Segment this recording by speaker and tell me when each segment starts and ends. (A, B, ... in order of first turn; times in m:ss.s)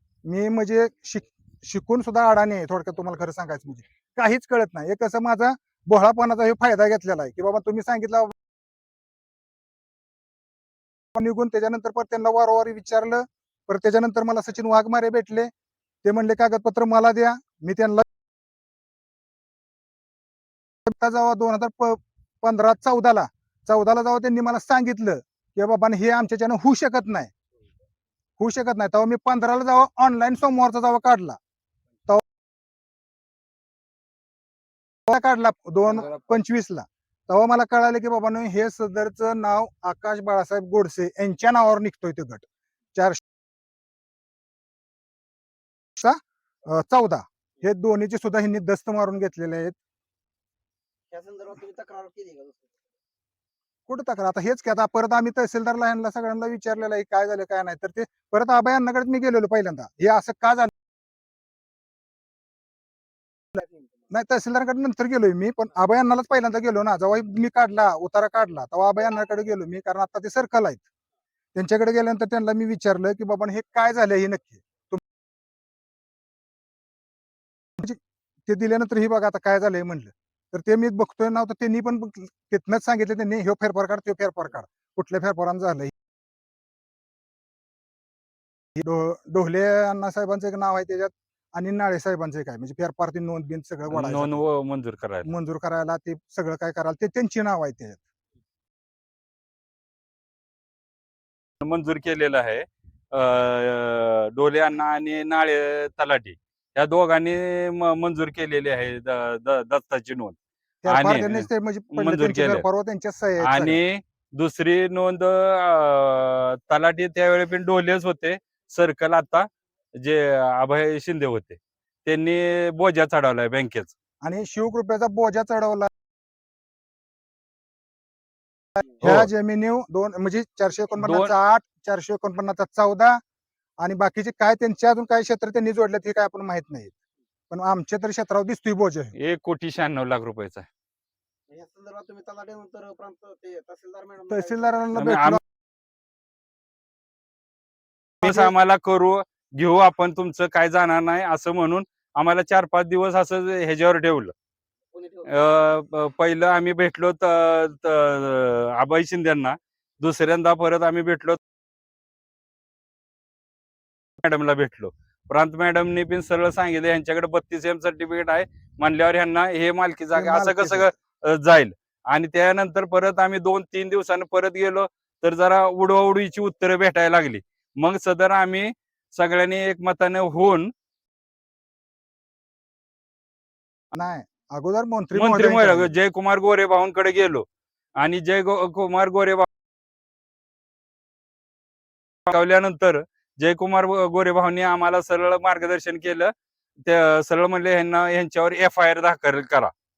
0:00.2-0:08.3 A
0:11.2-0:15.5 A
0:16.0-0:18.0 A
0:20.8-0:27.3 A
0:28.4-0:31.4 A
0:35.1-0:43.2 A
0:46.0-0:49.7 A
0:51.1-0:52.8 B
0:53.9-1:00.7 A
1:04.1-1:10.8 A
1:11.5-1:15.0 A
1:17.8-1:25.9 A
1:28.8-1:34.4 A
1:33.9-1:35.3 C
1:35.2-1:38.0 A
1:41.6-1:52.6 C
1:50.8-1:53.8 A
1:53.4-2:03.9 C
2:04.2-2:05.9 A
2:08.8-2:13.2 A
2:09.0-2:09.3 C
2:11.0-2:11.3 C
2:13.8-2:16.9 A
2:17.5-2:19.1 A
2:19.2-2:20.7 C
2:21.5-2:24.7 B
2:24.3-2:25.4 A
2:25.0-2:25.4 C
2:28.2-2:28.5 A
2:28.2-2:34.3 C
2:34.9-2:35.6 B
2:35.3-2:41.4 C
2:44.2-3:00.7 C
2:50.1-2:50.9 A
3:03.9-3:05.9 A
3:05.1-3:07.4 C
3:08.0-3:09.5 C
3:12.3-3:16.3 C
3:16.8-3:19.7 C